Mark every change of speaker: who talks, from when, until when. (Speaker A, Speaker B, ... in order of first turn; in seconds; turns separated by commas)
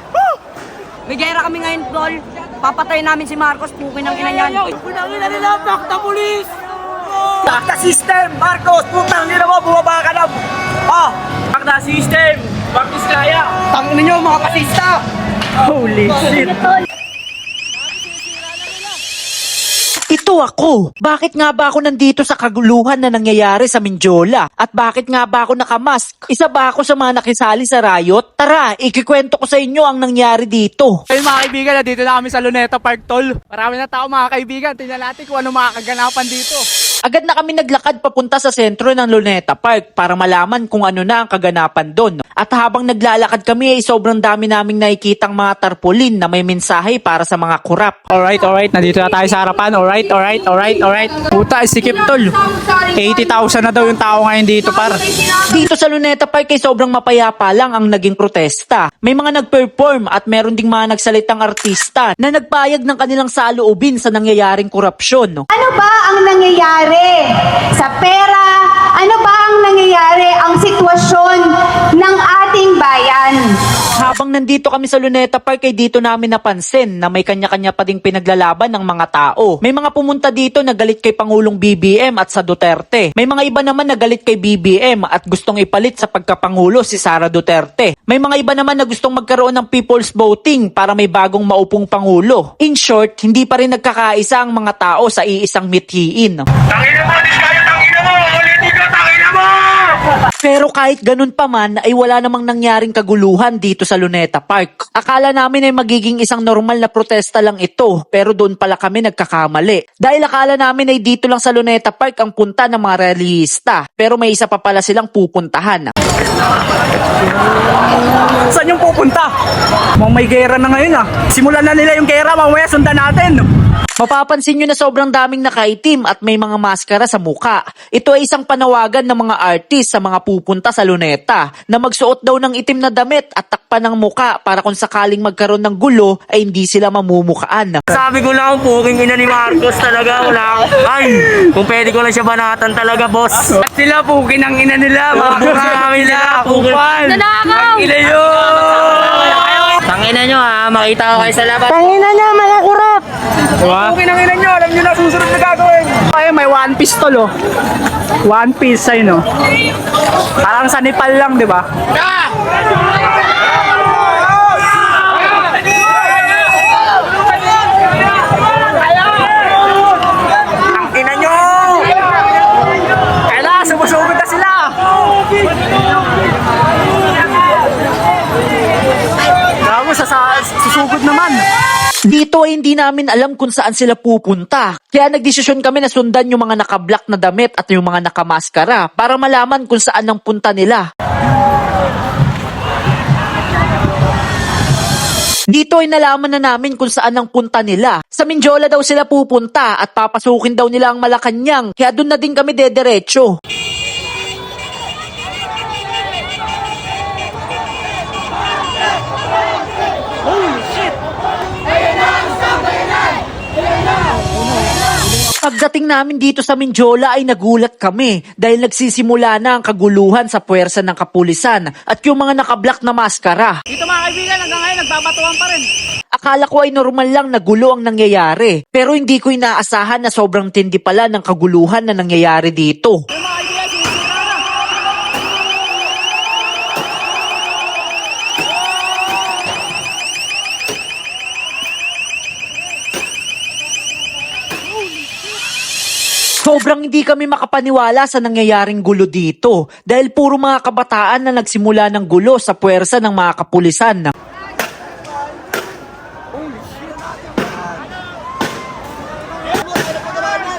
Speaker A: 1.1-4.7, Speaker B: 7.4-10.3, Speaker B: 10.9-14.8, Speaker B: 15.6-16.6, Speaker C: 20.1-31.0, Speaker B: 31.1-36.4, Speaker C: 37.1-48.0, Speaker B: 48.1-52.3, Speaker B: 53.0-55.0, Speaker C: 55.4-65.5, Speaker D: 65.5-73.5, Speaker C: 74.0-96.4, Speaker E: 96.7-99.8, Speaker C: 100.4-115.9, Speaker B: 118.5-119.3, Speaker B: 120.0-123.4, Speaker C: 124.0-137.8, Speaker E: 137.9-153.0, Speaker B: 153.6-157.3, Speaker B: 158.2-159.2, Speaker B: 160.4-161.7, Speaker E: 170.7-171.9, Speaker B: 173.3-174.8, Speaker B: 179.6-181.4, Speaker C: 182.1-190.9, Speaker C: 195.5-203.3, Speaker C: 215.4-223.6, Speaker B: 223.7-225.7, Speaker C: 226.2-233.0, Speaker B: 233.2-234.3, Speaker C: 246.4-254.1